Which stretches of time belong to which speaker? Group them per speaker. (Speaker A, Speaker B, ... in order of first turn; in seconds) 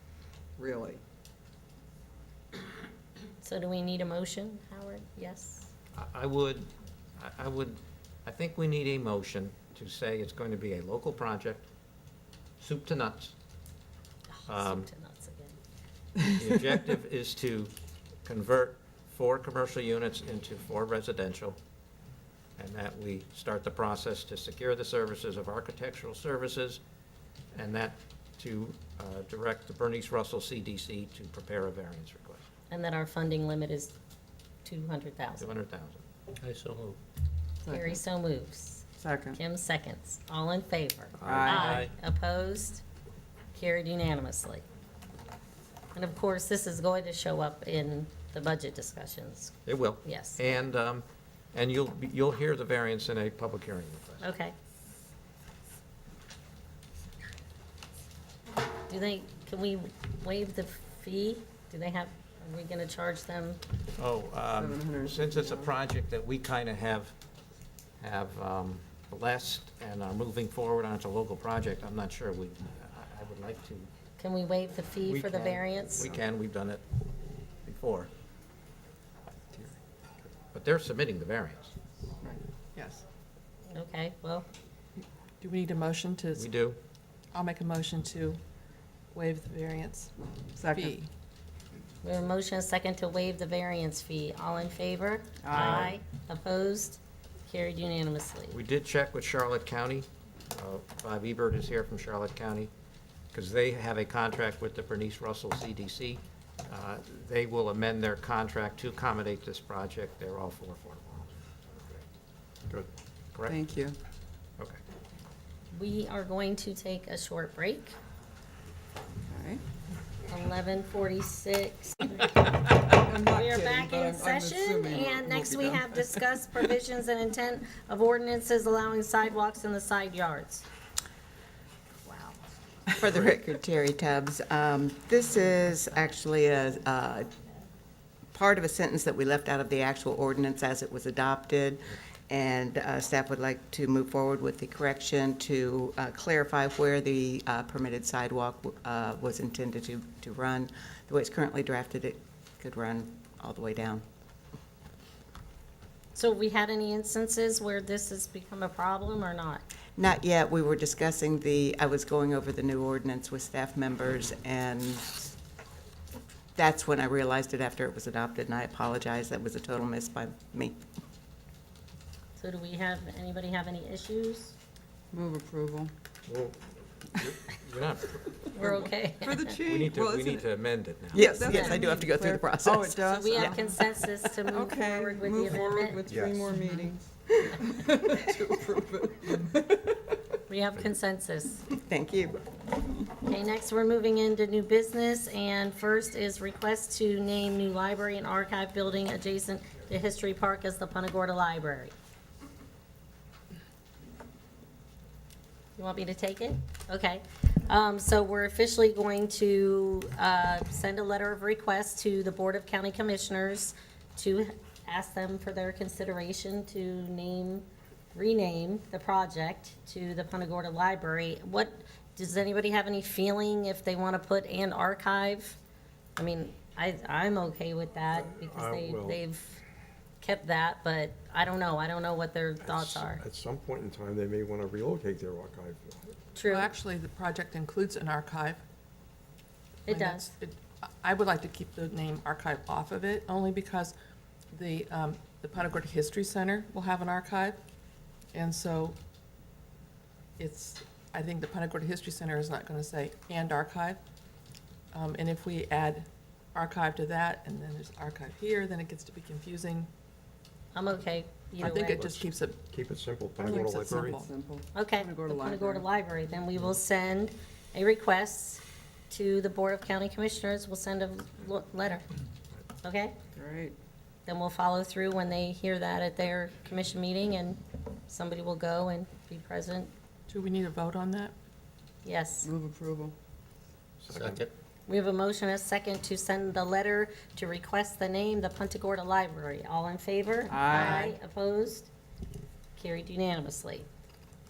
Speaker A: 0.6-1.0, 37.6-38.0, 39.0-39.4, 41.2-41.8, 64.5-65.7, 90.5-91.0, 95.4-95.9, 113.5-114.0, 119.3-119.6, 122.8-126.6, 175.1-175.9, 179.2-180.5, 181.1-190.0, 263.4-265.9, 273.3-273.8, 282.4-283.1, 290.5-291.1
Speaker B: 3.4-5.7, 14.3-15.6, 32.7-33.9, 34.6-35.5, 37.7-42.8, 43.5-44.6, 45.9-50.4, 54.2-54.5, 58.9-63.6, 74.2-76.0, 83.7-84.5, 92.0-98.6, 115.7-118.0, 120.3-122.3, 123.2-130.6, 156.1-159.6, 172.4-174.5, 178.6-179.6, 181.4-181.8, 183.1-186.0, 190.5-191.6, 193.2-201.9, 205.8-225.6, 226.2-229.6, 230.2-233.2, 236.3-236.7, 239.9-240.3, 260.7-262.2, 264.7-272.0, 272.8-273.1, 274.2-279.9, 282.0-282.5, 284.9-291.9, 292.8-293.9
Speaker C: 5.9-11.7, 12.6-13.3, 14.5-14.9, 16.2-17.7, 18.2-21.6, 22.6-26.8, 27.5-32.5, 35.4-37.0, 41.4-41.9, 49.6-54.3, 64.0-67.1, 68.0-73.9, 75.0-76.8, 77.6-78.1, 80.5-81.7, 86.3-86.8, 95.5-96.0, 98.5-102.7, 103.3-111.3, 176.3-176.6, 177.1-178.9, 179.6-181.4, 284.1-284.5
Speaker D: 82.7-83.0, 85.4-86.5, 87.3-88.4, 89.1-91.1, 236.4-238.6, 239.9-243.9, 244.5-247.6, 248.3-248.9, 250.4-254.0, 254.9-259.9, 261.6-262.6, 263.4-264.3, 280.3-281.3, 290.7-291.1
Speaker E: 132.9-137.3, 138.3-154.0, 160.0-165.3, 166.6-170.8, 181.1-183.7, 191.8-192.4
Speaker F: 186.0-186.5, 228.1-229.2, 232.6-236.2, 262.7-264.2, 284.0-284.4